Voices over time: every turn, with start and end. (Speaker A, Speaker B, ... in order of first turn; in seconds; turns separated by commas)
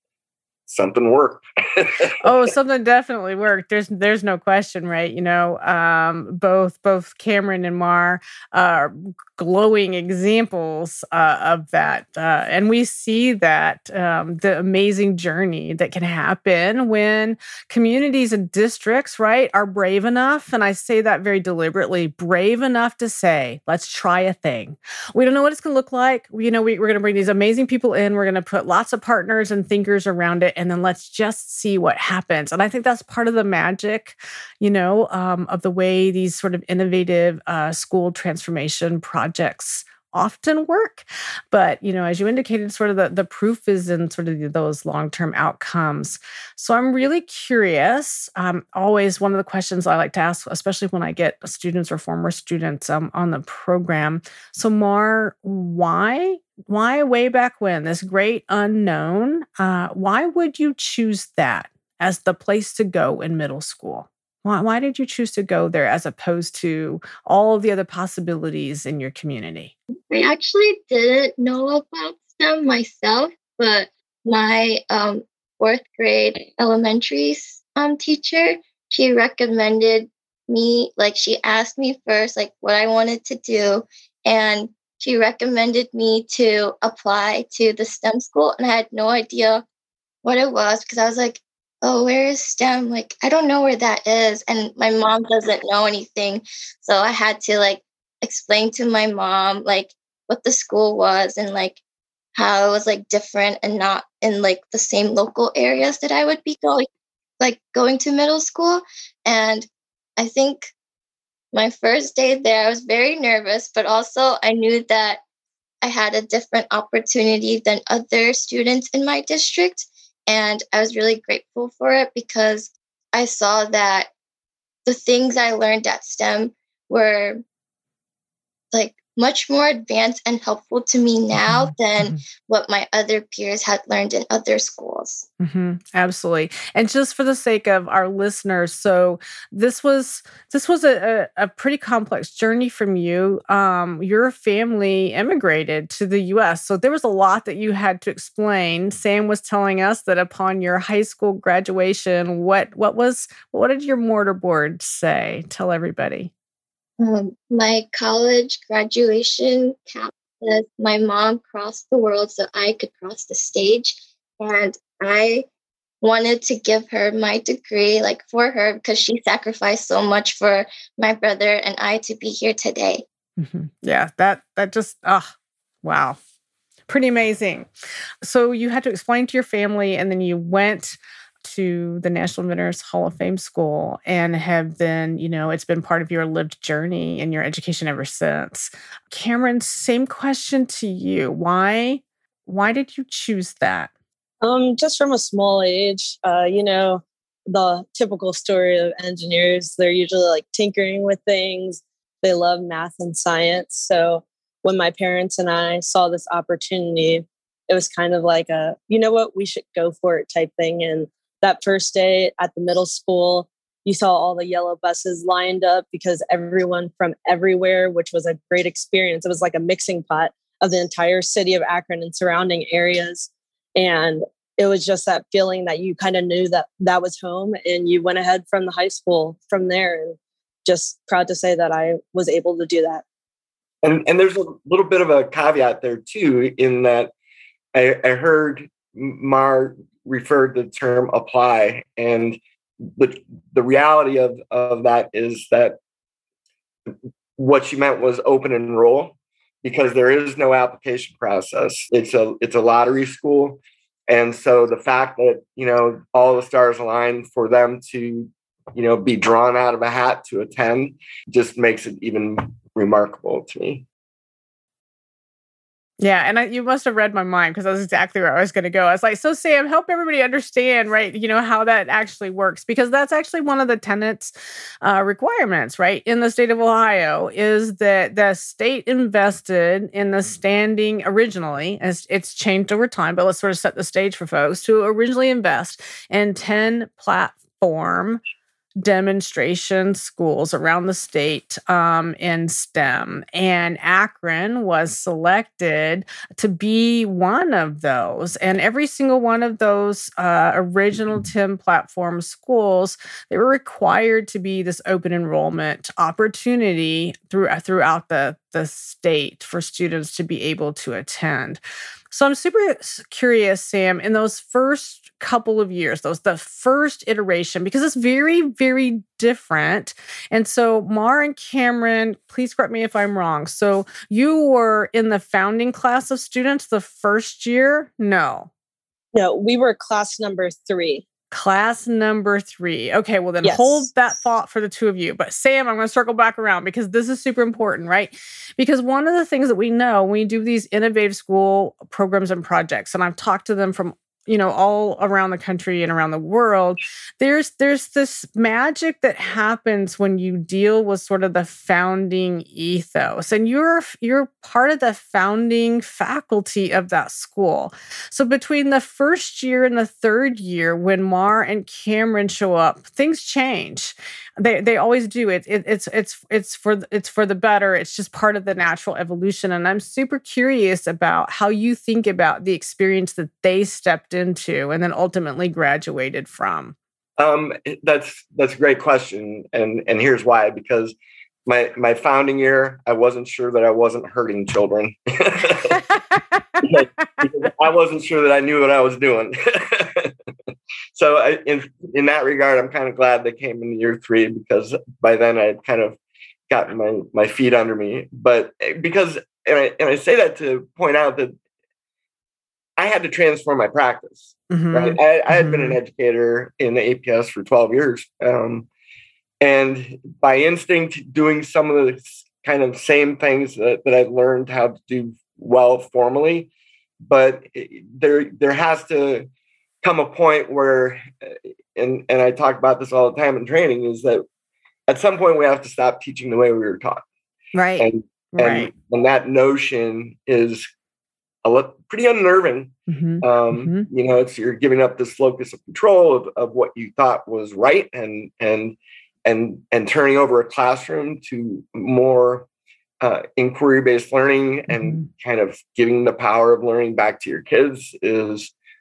Speaker A: 0.7-2.1, Speaker B: 2.2-69.7, Speaker C: 70.1-89.6, Speaker C: 90.2-101.8, Speaker C: 102.3-106.8, Speaker C: 107.4-110.7, Speaker C: 111.5-115.2, Speaker C: 115.8-124.1, Speaker C: 124.8-127.4, Speaker C: 128.7-135.2, Speaker B: 131.4-132.2, Speaker B: 135.4-156.3, Speaker C: 157.0-165.5, Speaker C: 166.0-173.0, Speaker B: 173.4-176.2, Speaker B: 176.9-177.7, Speaker B: 178.2-193.9, Speaker D: 194.4-233.0, Speaker A: 233.8-237.1, Speaker A: 237.7-245.8, Speaker A: 247.4-263.8, Speaker B: 266.0-288.2, Speaker B: 288.8-328.5, Speaker D: 329.1-331.0, Speaker B: 331.3-376.8, Speaker D: 333.4-333.9, Speaker A: 377.2-380.9, Speaker A: 381.4-385.9, Speaker A: 386.6-390.1, Speaker A: 390.9-396.0, Speaker A: 396.5-401.3, Speaker A: 402.8-408.7, Speaker B: 404.5-405.8, Speaker A: 409.4-416.5, Speaker A: 417.0-419.3, Speaker A: 419.8-424.2, Speaker A: 424.9-427.0, Speaker B: 427.5-428.7, Speaker A: 427.8-430.6, Speaker A: 431.4-442.5, Speaker B: 432.9-433.9, Speaker A: 443.0-448.5, Speaker B: 444.7-445.0